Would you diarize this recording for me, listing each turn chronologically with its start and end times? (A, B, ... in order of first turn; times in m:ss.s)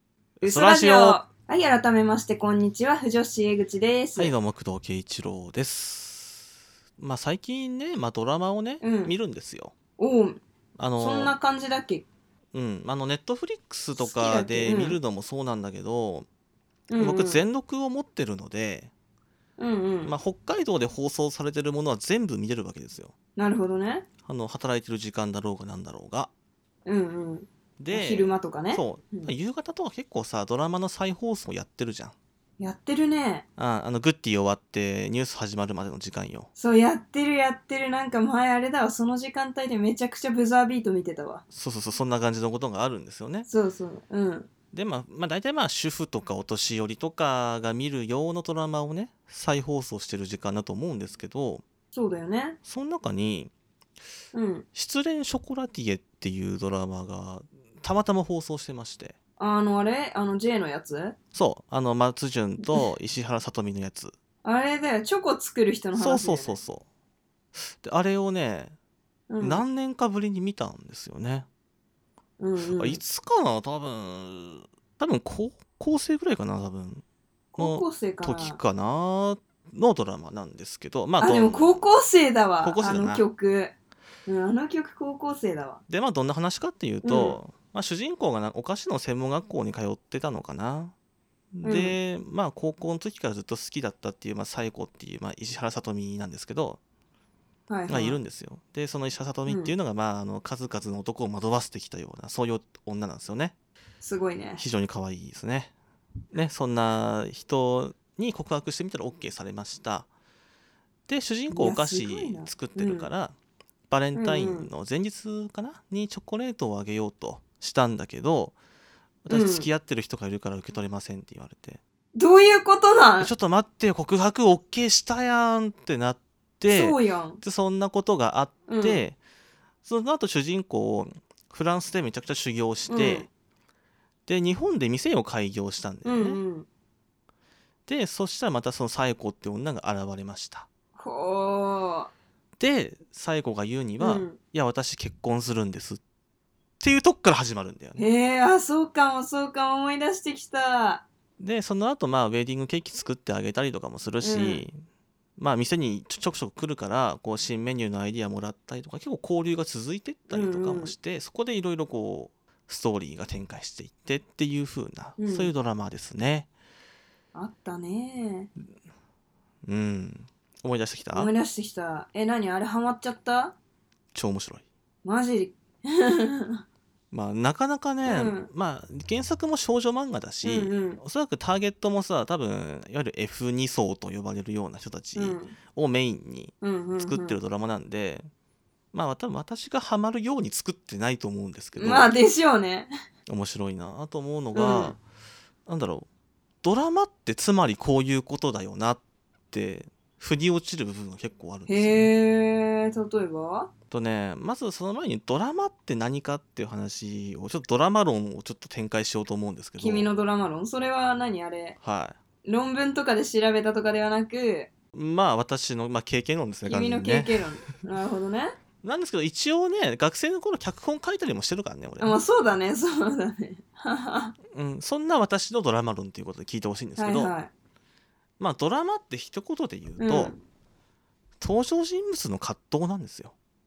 0:00.4-0:01.2 A
0:00.4-0:04.3 B
0:04.2-0:09.7 A
0:08.8-0:09.1 B
0:10.0-0:10.4 B
0:10.8-0:11.3 A
0:11.0-0:12.0 B
0:12.5-0:16.3 A
0:14.0-0:15.0 B
0:16.9-0:17.4 B
0:17.0-0:18.9 A
0:19.6-0:20.1 B
0:20.0-0:23.1 A
0:23.4-0:24.0 B
0:24.2-0:26.3 A
0:26.8-0:29.3 B
0:27.8-0:32.1 A
0:32.6-0:33.4 B
0:33.6-0:36.5 A
0:36.6-0:41.4 B
0:41.5-0:43.5 A
0:43.5-0:44.5 B
0:44.7-0:51.6 A
0:51.9-0:52.6 B
0:52.6-0:53.5 A
0:54.3-0:54.6 B
0:54.7-0:59.1 A
0:59.4-1:01.2 B
1:01.3-1:04.1 A
1:02.6-1:02.8 B
1:04.4-1:06.6 B
1:05.9-1:06.8 A
1:07.6-1:08.7 A
1:09.3-1:09.6 B
1:09.4-1:11.5 A
1:12.4-1:13.0 B
1:12.7-1:17.0 A
1:17.6-1:18.6 B
1:17.6-1:21.8 A
1:21.2-1:23.7 B
1:22.6-1:23.2 A
1:24.2-1:25.8 B
1:25.9-1:30.9 A
1:27.0-1:27.4 B
1:31.5-1:36.8 A
1:31.6-1:32.0 B
1:37.7-1:38.2 B
1:37.9-1:43.5 A
1:39.5-1:39.7 B
1:44.0-1:44.6 B
1:44.6-1:45.7 A
1:46.3-1:50.1 A
1:51.1-1:53.3 A
1:51.5-1:53.1 B
1:53.9-1:58.5 A
1:54.1-1:54.7 B
1:59.2-2:01.8 A
1:59.3-1:59.7 B
2:02.2-2:03.3 B
2:03.2-2:09.2 A
2:06.7-2:07.4 B
2:08.7-2:09.0 B
2:09.8-2:13.3 A
2:12.9-2:13.3 B
2:14.3-2:16.4 A
2:16.0-2:16.7 B
2:17.9-2:20.7 A
2:21.0-2:22.1 B
2:22.6-2:26.0 A
2:24.0-2:24.4 B
2:26.8-2:28.0 A
2:28.0-2:31.0 B
2:31.4-2:34.7 A
2:34.2-2:34.6 B
2:35.4-2:46.5 A
2:40.3-2:40.9 B
2:45.2-2:45.5 B
2:47.3-2:48.5 B
2:49.6-2:51.3 A
2:51.1-2:53.5 B
2:54.1-2:54.6 A
2:55.0-2:56.6 B
2:57.1-3:08.3 A
2:58.0-2:58.5 B
3:00.4-3:01.0 B
3:05.1-3:05.6 B
3:06.6-3:07.4 B
3:08.9-3:12.1 A
3:11.8-3:12.9 B
3:13.3-3:15.0 A
3:14.5-3:15.0 B
3:15.6-3:16.1 A
3:16.6-3:22.1 A
3:21.7-3:23.7 B
3:23.9-3:30.1 A
3:29.8-3:31.8 B
3:31.8-3:32.2 A
3:32.4-3:34.7 B
3:34.9-3:37.4 A
3:36.6-3:38.6 B
3:38.8-3:42.2 A
3:42.0-3:44.3 B
3:44.5-3:47.3 A
3:47.0-3:47.5 B
3:48.4-3:50.3 A
3:50.0-3:50.4 B
3:51.4-3:53.3 A